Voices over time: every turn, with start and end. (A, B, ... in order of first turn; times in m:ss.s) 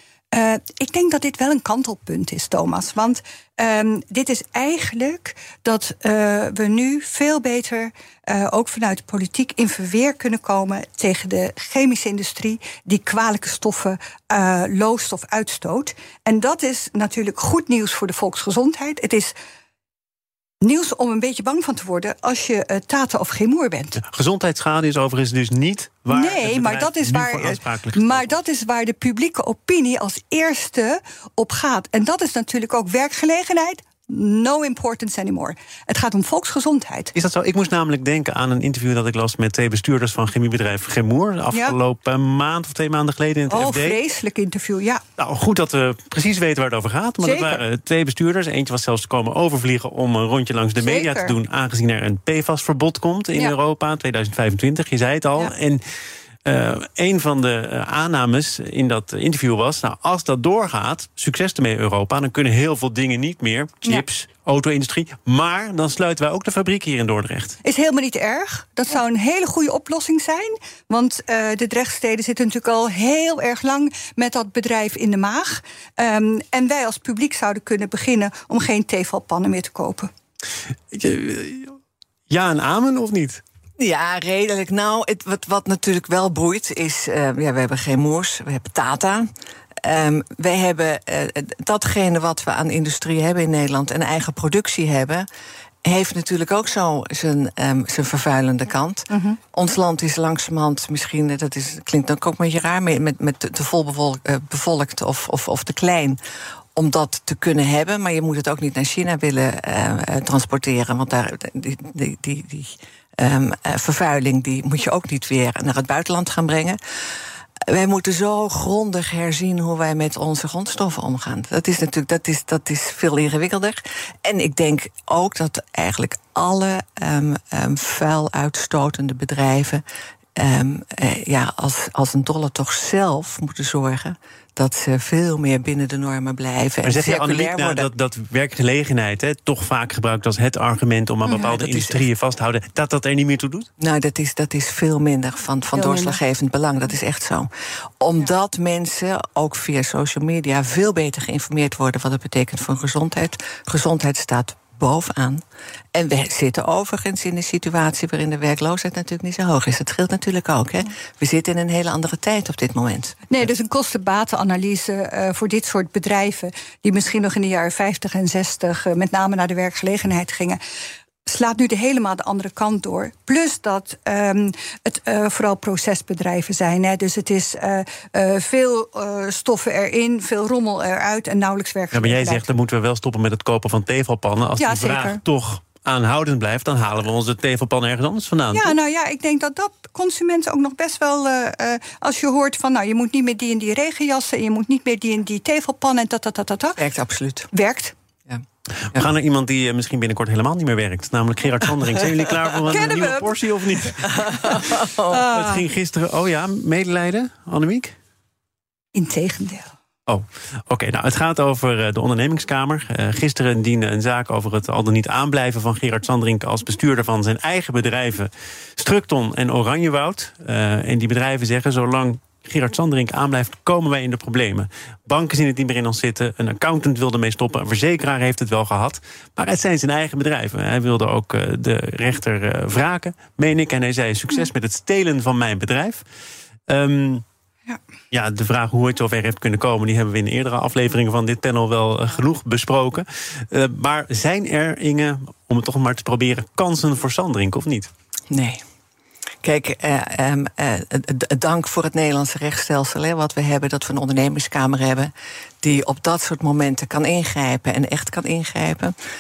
0:00.3-0:19.3 A
0:20.6-0:24.0 A
0:24.0-0:28.4 B
0:26.1-0:37.1 A
0:37.1-0:44.0 B
0:43.5-0:45.0 A
0:45.2-0:55.8 B
0:47.2-0:47.6 A
0:50.8-0:51.3 A
0:56.4-1:07.6 B
1:07.6-1:20.1 A
1:20.9-1:21.8 B
1:22.3-1:23.4 B
1:23.8-1:29.3 C
1:29.8-1:35.2 C
1:35.8-1:46.2 C
1:39.1-1:39.4 A
1:46.7-1:56.8 C
1:57.7-2:09.8 C
2:10.4-2:17.9 C
2:16.8-2:23.7 B
2:21.2-2:21.5 A
2:21.4-2:22.0 C
2:23.8-2:27.5 C
2:25.7-2:26.2 A
2:28.0-2:35.4 C
2:35.9-2:43.2 C
2:43.3-2:50.6 A
2:51.2-3:02.4 A
3:01.9-3:08.8 B
3:04.6-3:05.2 A
3:08.5-3:16.8 A
3:16.8-3:17.5 C
3:17.5-3:17.9 A
3:18.9-3:24.6 B
3:22.7-3:23.4 A
3:24.0-3:25.2 C
3:24.4-3:25.6 A
3:25.3-3:27.9 B
3:28.9-3:29.7 A
3:30.1-3:56.0 B
3:56.7-3:57.2 B
3:58.1-4:07.9 B
4:08.3-4:08.6 C
4:09.4-4:15.1 C
4:15.6-4:18.9 C